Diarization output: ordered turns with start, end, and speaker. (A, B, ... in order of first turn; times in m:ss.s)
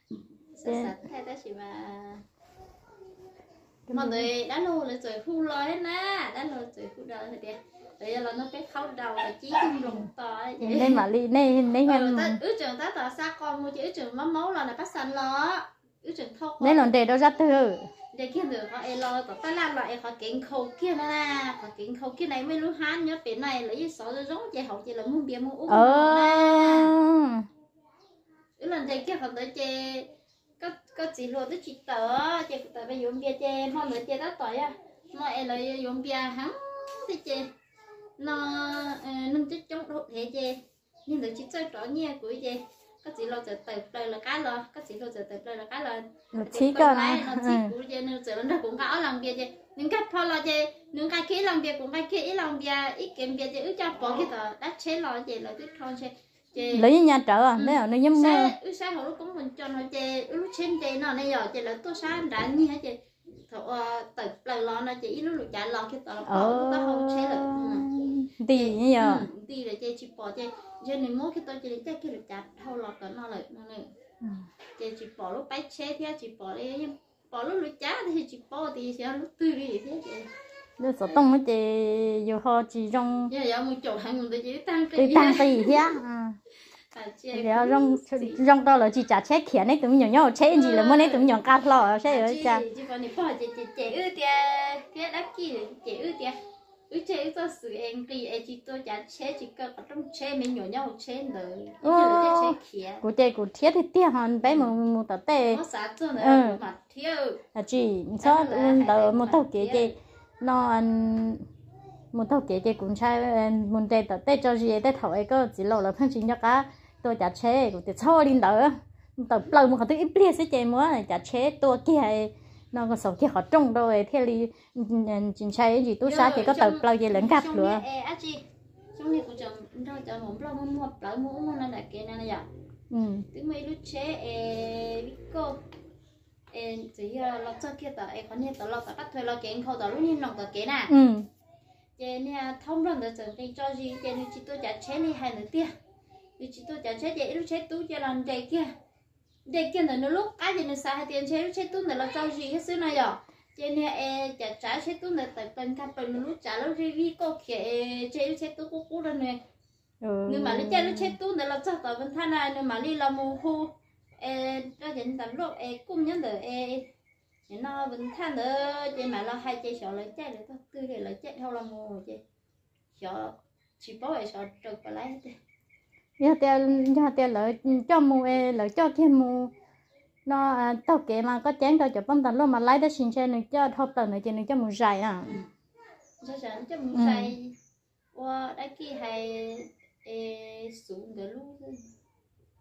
0:00.6-0:02.2 A
0:03.9-0:04.3 B
0:03.9-0:11.0 A
0:10.6-0:12.4 B
0:11.9-0:16.9 A
0:16.6-0:17.9 B
0:18.1-0:26.9 A
0:25.7-0:27.5 B
0:28.6-0:37.5 A
0:38.2-0:56.9 A
0:46.3-0:47.7 B
0:56.7-0:58.5 B
0:57.6-1:07.9 A
1:06.3-1:09.3 B
1:08.5-1:13.9 A
1:14.2-1:14.5 B
1:14.8-1:20.3 A
1:20.8-1:23.3 B
1:23.3-1:25.9 A
1:25.0-1:26.4 B
1:26.9-1:28.4 A
1:27.3-1:32.6 B
1:30.5-1:31.4 A
1:32.1-1:36.4 A
1:36.9-1:43.0 A
1:41.8-1:45.6 B
1:45.5-1:47.4 A
1:46.2-1:46.6 B
1:47.6-1:51.4 B
1:48.2-1:49.9 A
1:52.1-2:07.8 B
2:06.0-2:08.4 A
2:09.0-2:12.5 A
2:12.9-2:13.3 B
2:13.3-2:15.6 A
2:16.5-2:20.9 A
2:20.9-2:21.3 B
2:22.0-2:25.7 A
2:26.4-2:28.7 A
2:29.5-2:39.4 A
2:40.0-2:41.1 B
2:40.3-2:46.9 A
2:47.5-2:52.2 A
2:53.0-2:55.4 A
2:56.2-2:59.5 B
3:00.3-3:05.3 B
3:06.2-3:07.5 A
3:06.9-3:07.3 B
3:08.1-3:11.9 A